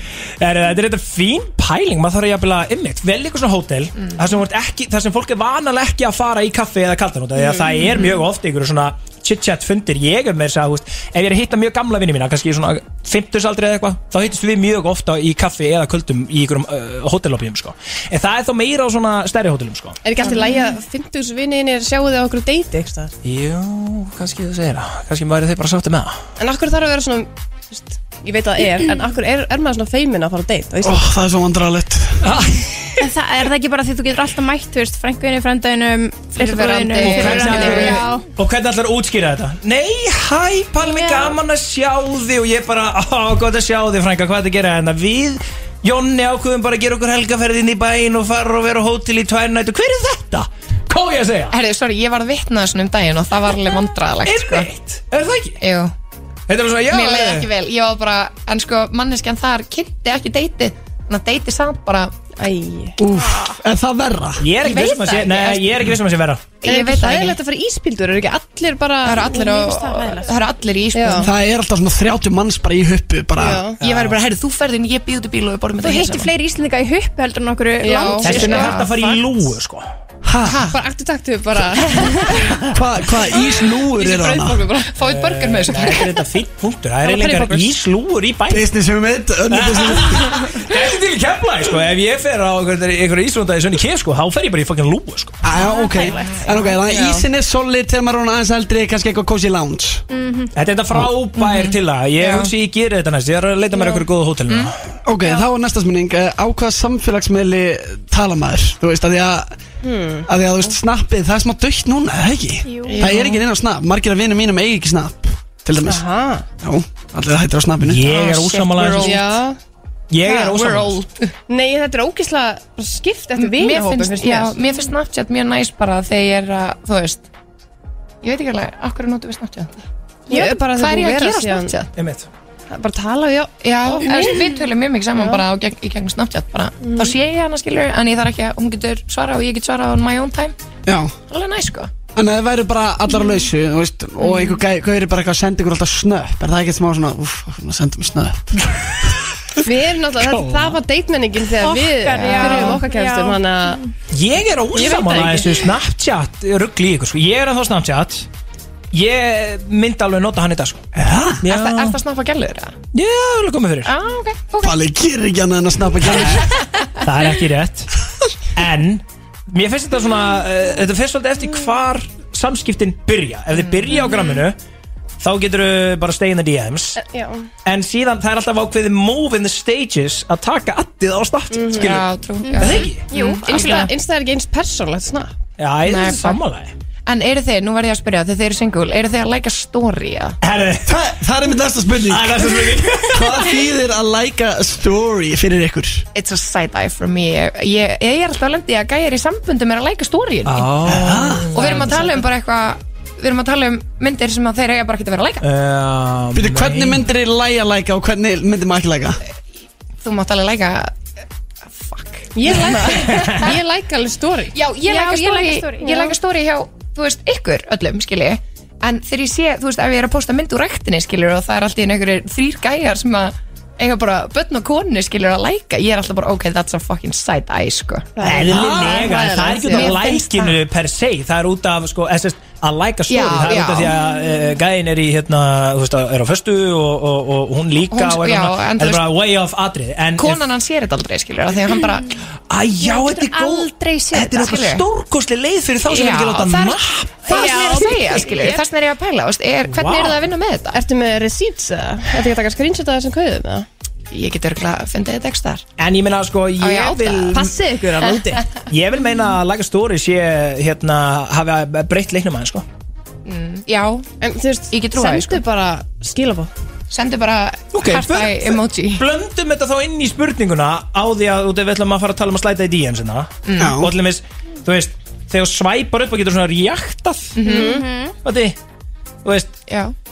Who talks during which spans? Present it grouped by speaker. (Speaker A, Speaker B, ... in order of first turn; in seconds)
Speaker A: 0.4-20.0, 23.2-26.2, 32.2-33.0, 37.0-51.5, 54.2-55.6, 56.5-57.5, 64.4-66.6, 73.8-74.2, 78.2-79.8, 85.0-88.7, 89.5-95.4, 100.5-104.8, 117.8-119.3, 120.1-121.0, 131.9-132.3, 150.4-150.7, 154.1-158.3, 158.9-160.8, 161.4-162.0, 162.9-163.9, 166.1-166.4, 167.0-167.9, 168.5-174.6, 175.2-177.0, 177.6-182.1, 182.6-183.1, 185.6-186.7, 190.4-190.9, 192.1-193.5, 200.4-202.0, 205.4-207.1, 212.5-213.5, 228.2-240.4, 242.5-247.4, 249.7-250.2, 255.8-257.5, 258.6-262.6, 267.7-277.4, 278.2-278.6, 279.2-279.6
Speaker B: 20.0-23.1, 26.4-31.1, 62.4-63.0, 66.6-69.8, 70.9-71.3, 73.3-73.8, 77.8-78.5, 80.7-82.2, 83.8-84.9, 87.0-87.7, 96.9-97.2, 103.7-104.0, 109.8-110.3, 115.8-116.4, 119.0-119.6, 121.5-124.5, 130.3-131.8, 132.7-134.3, 136.8-137.1, 149.6-153.8, 154.7-155.6, 177.0-177.5, 181.5-181.8, 183.1-185.3, 212.3-214.5, 228.2-230.1, 250.7-253.7, 257.3-258.5, 264.2-266.5, 277.5-277.8
Speaker C: 20.2-20.6, 36.3-38.1, 51.5-54.7, 55.6-55.9, 56.9-62.1, 64.5-66.0, 66.6-67.4, 69.0-71.3, 73.8-76.3, 78.2-78.9, 80.4-80.8, 81.8-82.2, 84.9-86.1, 95.5-96.8, 101.3-102.5, 104.5-104.7, 112.9-113.4, 118.0-119.3, 120.3-121.3, 123.3-127.2, 128.2-129.7, 130.3-131.9, 133.6-140.5, 141.3-141.9, 152.0-152.8, 161.4-162.7, 163.8-164.8, 173.5-174.0, 181.7-183.9, 185.8-186.4, 187.1-190.3, 196.1-200.8, 201.5-205.4, 210.0-210.9, 211.7-213.5, 214.5-228.1, 229.7-230.6, 233.1-233.9, 237.9-239.1, 240.2-242.1, 244.3-244.8, 245.8-250.8, 254.1-255.6, 256.6-257.4, 263.2-264.1, 264.7-265.4, 266.9-269.1, 273.4-273.8, 277.3-277.8, 279.7-279.9
Speaker D: 20.3-20.7, 33.0-38.2, 40.8-41.4, 69.2-70.2, 75.8-78.7, 95.7-96.1, 100.1-100.5, 112.7-113.0, 151.6-153.8, 182.4-183.8, 214.8-216.1, 234.0-234.5, 242.8-244.3, 247.3-248.6, 277.4-278.1
Speaker E: 30.8-32.2, 63.0-64.4, 71.2-73.6, 80.2-80.7, 82.7-84.6, 88.5-90.5, 95.4-100.0, 105.0-109.5, 110.3-116.0, 116.6-118.1, 140.9-141.1, 142.2-148.7, 160.9-161.4, 164.6-166.5, 190.8-196.1, 200.8-201.5, 206.3-209.2, 228.5-229.0, 273.6-273.9